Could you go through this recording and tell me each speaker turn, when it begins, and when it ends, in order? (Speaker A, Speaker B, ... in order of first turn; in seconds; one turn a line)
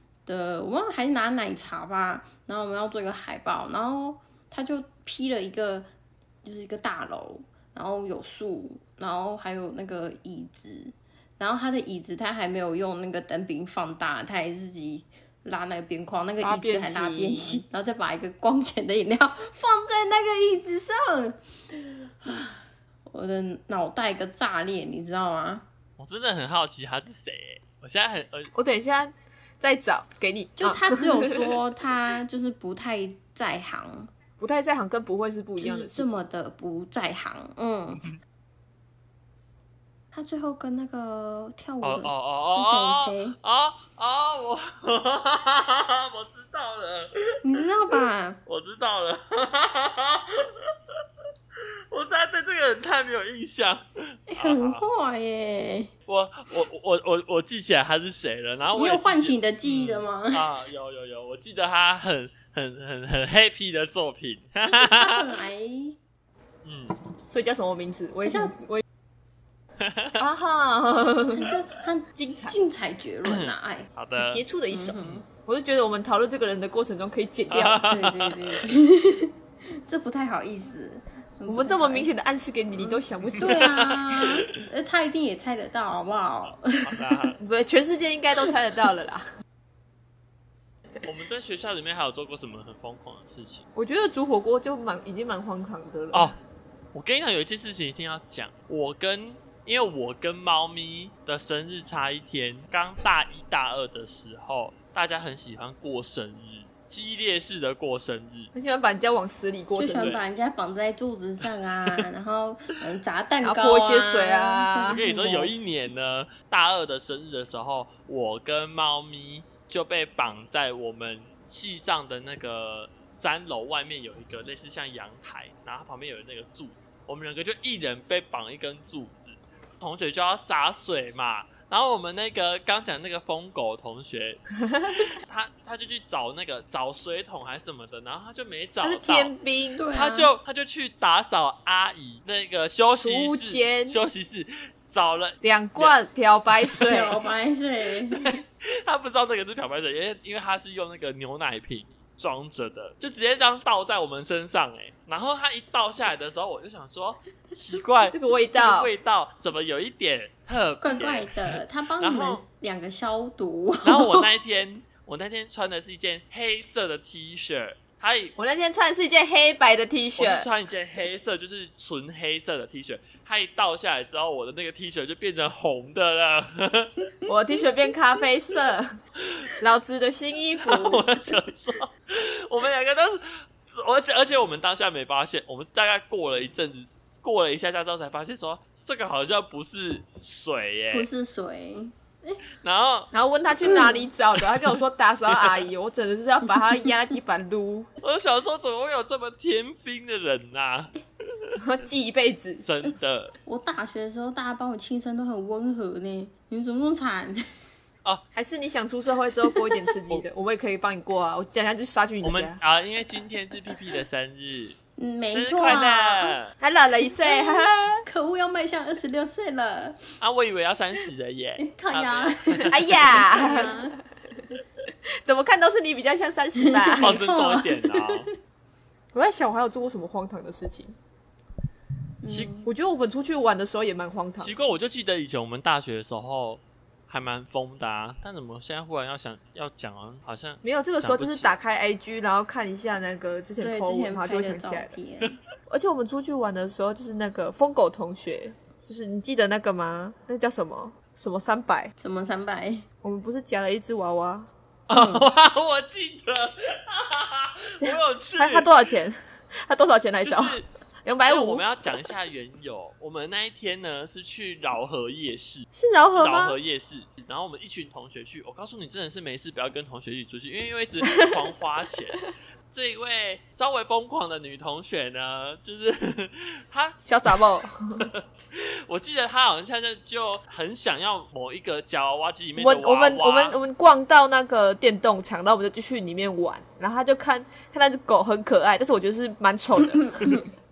Speaker A: 0.3-5.9
Speaker A: 6.4-25.7
Speaker B: 16.4-17.6
Speaker C: 26.0-28.5
Speaker B: 28.5-31.4
Speaker A: 30.6-34.1
Speaker B: 34.4-36.2
Speaker A: 35.6-38.0
Speaker A: 40.1-43.4
Speaker C: 41.8-47.6
Speaker A: 47.4-48.4
Speaker C: 48.5-50.9
Speaker C: 51.9-54.8
Speaker A: 54.3-55.9
Speaker C: 56.1-65.2
Speaker A: 58.8-60.6
Speaker A: 64.6-66.0
Speaker C: 66.6-67.0
Speaker B: 67.3-68.8
Speaker A: 68.2-68.6
Speaker C: 69.8-70.2
Speaker B: 70.2-71.5
Speaker A: 71.3-73.9
Speaker B: 72.2-72.6
Speaker C: 73.3-74.4
Speaker B: 74.2-77.8
Speaker A: 74.7-75.3
Speaker C: 77.5-78.7
Speaker A: 77.8-82.1
Speaker B: 81.5-83.8
Speaker A: 82.7-87.2
Speaker C: 83.4-84.6
Speaker C: 86.7-87.4
Speaker B: 87.4-89.2
Speaker C: 91.0-93.7
Speaker B: 93.8-96.3
Speaker C: 96.1-96.4
Speaker C: 96.9-108.5
Speaker B: 108.5-110.2
Speaker A: 109.8-115.5
Speaker B: 113.4-115.0
Speaker C: 114.9-139.3
Speaker B: 134.7-135.0
Speaker B: 138.8-139.8
Speaker A: 139.8-140.3
Speaker C: 139.9-146.0
Speaker B: 143.0-144.0
Speaker B: 145.4-147.2
Speaker A: 146.8-148.4
Speaker C: 148.1-162.4
Speaker B: 158.1-158.9
Speaker A: 160.8-164.3
Speaker C: 163.8-168.3
Speaker B: 168.4-170.5
Speaker C: 170.2-177.1
Speaker B: 177.3-179.0
Speaker C: 179.2-179.5
Speaker B: 179.6-181.0
Speaker C: 180.6-191.1
Speaker A: 190.9-192.4
Speaker C: 192.6-193.1
Speaker B: 193.1-197.9
Speaker A: 193.6-194.1
Speaker C: 194.4-194.8
Speaker C: 195.3-195.7
Speaker C: 198.0-201.5
Speaker B: 201.6-202.7
Speaker C: 202.6-203.3
Speaker A: 203.4-207.4
Speaker B: 208.3-212.6
Speaker C: 212.2-214.8
Speaker A: 215.0-216.4
Speaker C: 215.3-216.5
Speaker B: 216.6-218.0
Speaker A: 217.2-220.1
Speaker C: 220.2-223.2
Speaker A: 221.6-223.9
Speaker B: 222.7-223.9
Speaker B: 225.2-227.2
Speaker A: 226.6-228.2
Speaker C: 227.0-228.3
Speaker B: 229.1-230.9
Speaker A: 232.2-232.7
Speaker B: 232.6-234.5
Speaker C: 234.4-241.6
Speaker B: 240.6-244.9
Speaker A: 243.6-245.4
Speaker B: 245.7-251.9
Speaker A: 252.0-252.8
Speaker B: 253.0-254.5
Speaker C: 254.9-258.7
Speaker A: 254.9-255.3
Speaker B: 257.8-261.7
Speaker C: 260.2-260.7
Speaker C: 261.3-277.4
Speaker B: 265.7-266.6
Speaker B: 277.1-278.1
Speaker C: 278.0-283.6
Speaker B: 282.6-290.4
Speaker A: 289.9-290.4